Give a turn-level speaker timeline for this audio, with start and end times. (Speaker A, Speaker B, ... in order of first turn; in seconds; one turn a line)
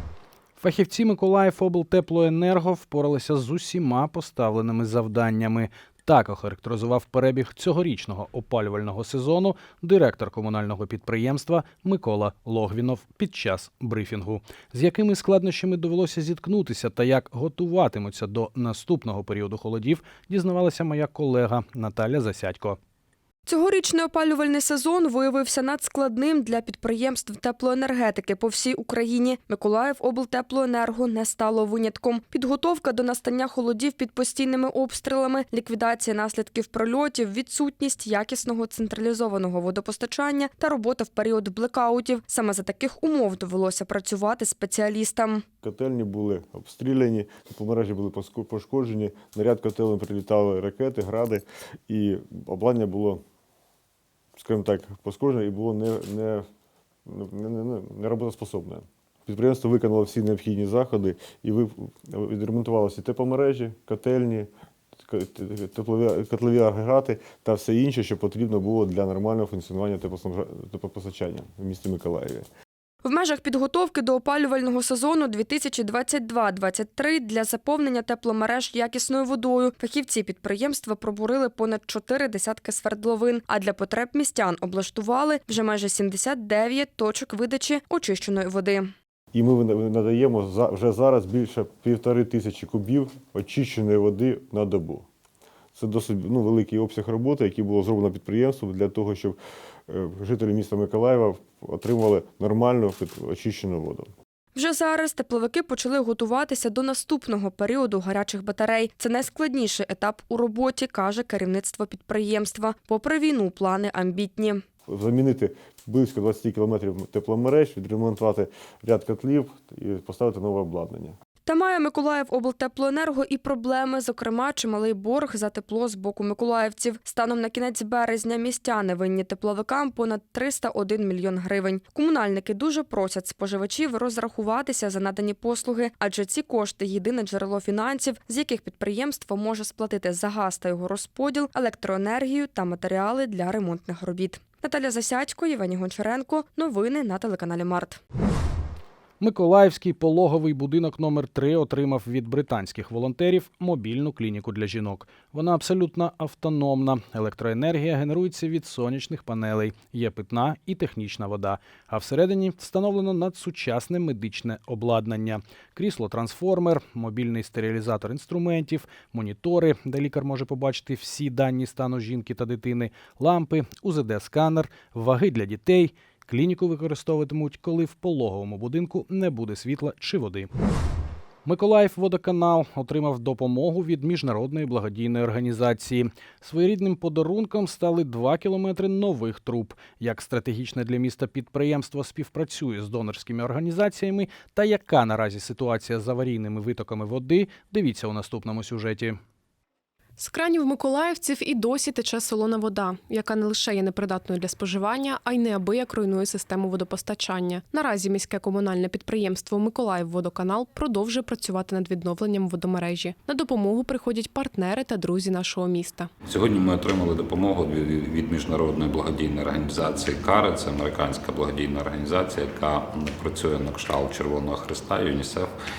Speaker A: 0.6-22.8
Speaker B: 23.4-45.4
Speaker C: 45.6-53.2
Speaker C: 54.4-56.5
Speaker C: 57.1-64.5
Speaker C: 65.0-72.5
Speaker B: 73.0-88.9
Speaker C: 89.3-95.0
Speaker C: 95.8-99.4
Speaker C: 99.9-104.1
Speaker B: 104.5-114.6
Speaker C: 114.9-121.1
Speaker B: 121.5-148.0
Speaker A: 149.2-180.5
Speaker A: 181.4-199.2
Speaker D: 200.2-216.1
Speaker E: 216.3-225.5